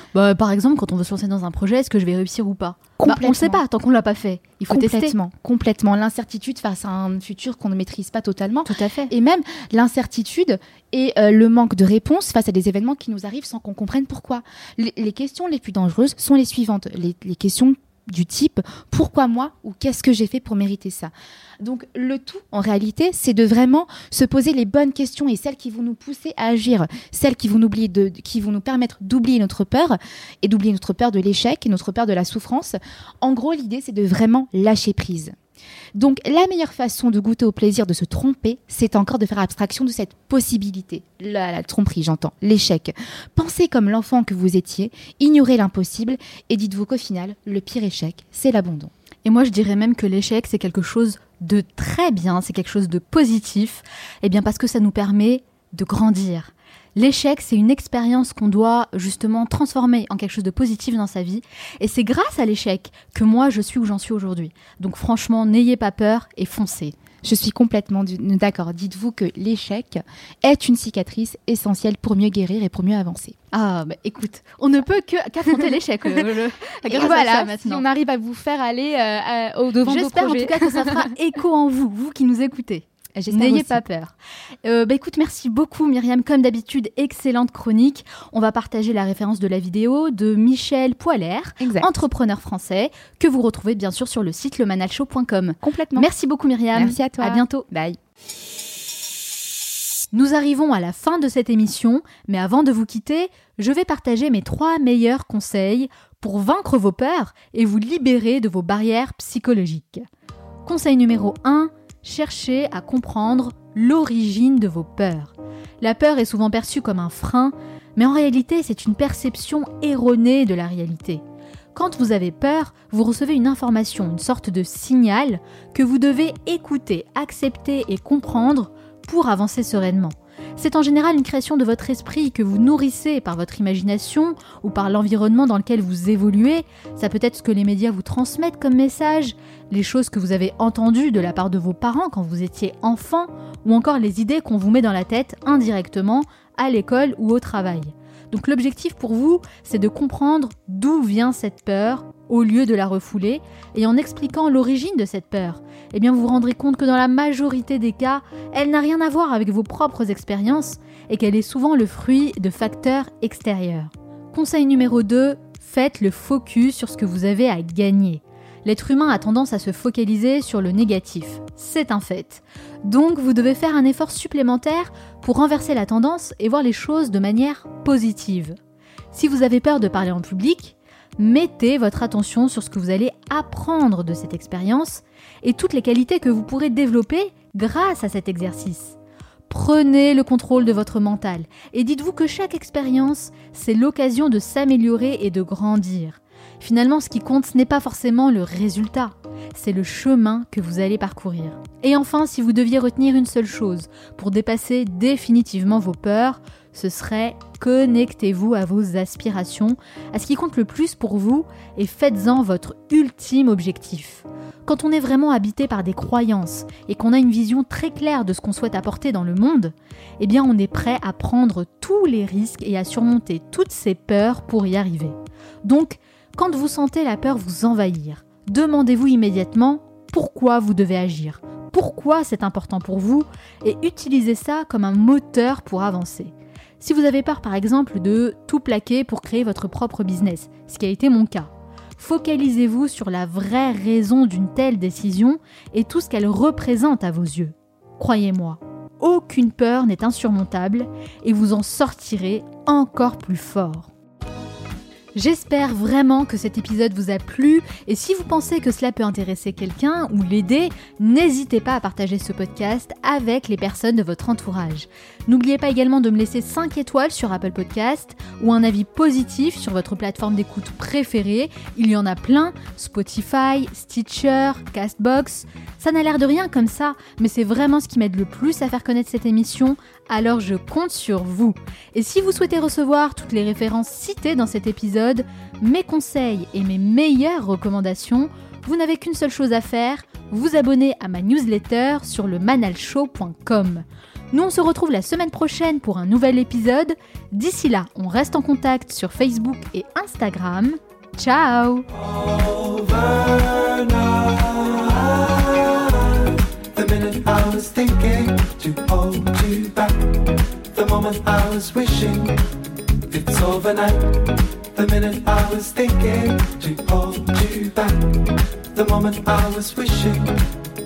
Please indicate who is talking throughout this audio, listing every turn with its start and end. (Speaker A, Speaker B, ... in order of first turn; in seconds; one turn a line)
Speaker A: 0.1-5.1
Speaker B: 3.0-3.6
Speaker B: 4.7-35.4
Speaker A: 8.7-9.1
Speaker B: 36.0-48.9
Speaker A: 49.2-67.0
Speaker B: 67.2-73.4
Speaker A: 73.5-77.8
Speaker B: 76.9-81.1
Speaker A: 79.8-97.7
Speaker B: 83.2-83.8
Speaker B: 91.6-91.9
Speaker B: 95.6-96.1
Speaker B: 96.7-98.0
Speaker A: 100.1-110.1
Speaker A: 110.7-121.2
Speaker A: 121.8-178.6
Speaker A: 179.1-189.0
Speaker A: 189.5-253.9
Speaker A: 255.2-301.9
Speaker C: 301.9-312.4
Speaker C: 313.1-320.6